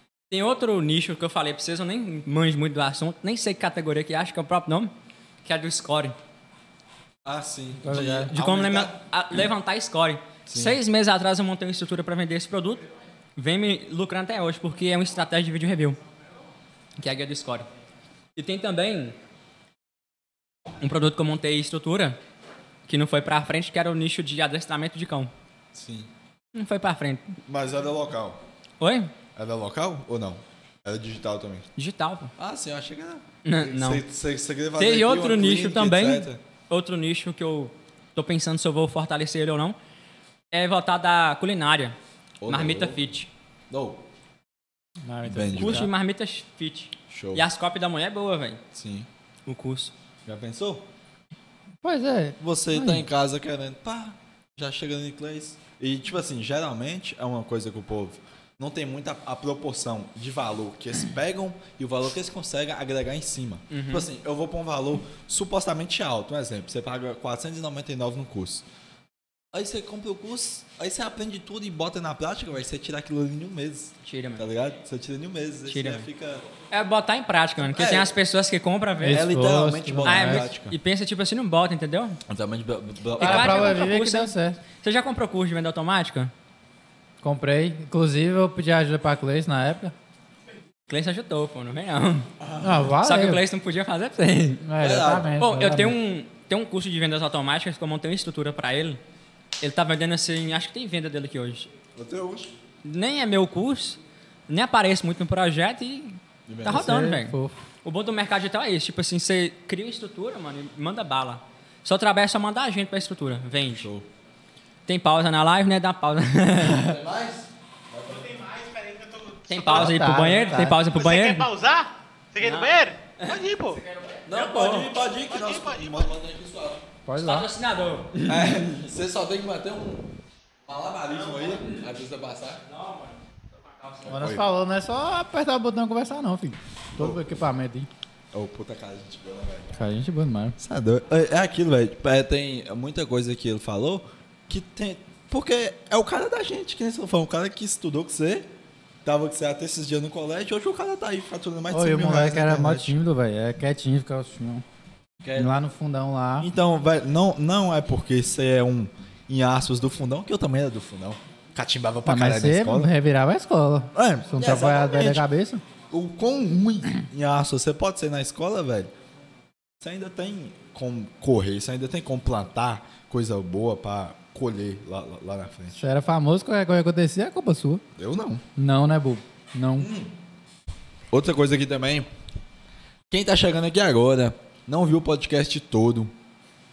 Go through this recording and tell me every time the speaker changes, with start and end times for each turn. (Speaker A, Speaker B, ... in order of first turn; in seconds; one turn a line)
Speaker A: 0.3-4.9
Speaker A: 5.4-6.2
Speaker B: 7.2-8.9
Speaker C: 7.8-8.3
Speaker A: 8.3-16.0
Speaker B: 10.5-10.8
Speaker A: 17.0-17.7
Speaker A: 18.4-19.2
Speaker A: 20.8-22.2
Speaker A: 22.9-25.3
Speaker B: 25.7-26.1
Speaker A: 26.5-27.4
Speaker B: 27.5-28.4
Speaker A: 28.8-29.1
Speaker B: 29.4-31.7
Speaker A: 31.8-32.3
Speaker B: 32.4-36.4
Speaker A: 33.5-34.0
Speaker A: 34.8-39.8
Speaker A: 40.5-42.0
Speaker B: 42.4-43.0
Speaker A: 42.5-43.3
Speaker B: 43.7-44.0
Speaker C: 45.0-45.9
Speaker B: 45.3-45.9
Speaker A: 45.5-48.6
Speaker B: 47.1-47.4
Speaker B: 48.8-49.1
Speaker A: 49.5-49.9
Speaker B: 50.3-50.9
Speaker C: 51.8-53.0
Speaker B: 52.4-68.6
Speaker A: 63.7-64.1
Speaker B: 69.5-76.4
Speaker A: 74.0-74.4
Speaker A: 75.7-76.1
Speaker A: 76.7-79.2
Speaker B: 77.7-78.1
Speaker C: 79.0-80.5
Speaker B: 79.1-80.8
Speaker A: 80.0-82.2
Speaker B: 82.3-83.8
Speaker C: 83.2-84.6
Speaker A: 83.2-86.3
Speaker C: 87.2-89.9
Speaker A: 90.9-92.3
Speaker B: 92.4-92.9
Speaker C: 92.6-93.4
Speaker A: 93.0-94.7
Speaker C: 94.6-96.0
Speaker B: 94.8-95.3
Speaker A: 95.4-99.0
Speaker A: 99.6-101.7
Speaker B: 102.0-102.5
Speaker A: 102.8-113.9
Speaker B: 106.5-107.0
Speaker C: 106.7-107.6
Speaker B: 113.7-114.1
Speaker A: 114.9-117.0
Speaker B: 116.6-118.3
Speaker D: 118.1-120.0
Speaker A: 119.5-121.5
Speaker C: 119.7-120.8
Speaker D: 120.6-123.8
Speaker A: 122.4-123.4
Speaker A: 124.3-124.9
Speaker B: 124.3-126.8
Speaker D: 125.3-126.1
Speaker C: 127.1-127.5
Speaker A: 127.2-128.6
Speaker B: 128.3-130.1
Speaker B: 130.7-132.6
Speaker A: 132.7-133.2
Speaker A: 133.7-134.2
Speaker B: 134.1-134.4
Speaker C: 134.1-137.9
Speaker B: 137.0-137.2
Speaker B: 138.3-139.7
Speaker C: 139.7-140.6
Speaker B: 140.6-148.5
Speaker B: 149.1-153.0
Speaker C: 151.7-154.6
Speaker B: 155.2-155.5
Speaker C: 155.4-156.5
Speaker B: 156.4-162.9
Speaker C: 162.1-165.6
Speaker B: 163.9-165.2
Speaker B: 165.9-168.9
Speaker B: 169.8-175.8
Speaker C: 175.8-177.8
Speaker B: 178.0-178.4
Speaker C: 178.6-179.9
Speaker B: 179.8-180.1
Speaker B: 181.1-182.1
Speaker B: 183.1-186.1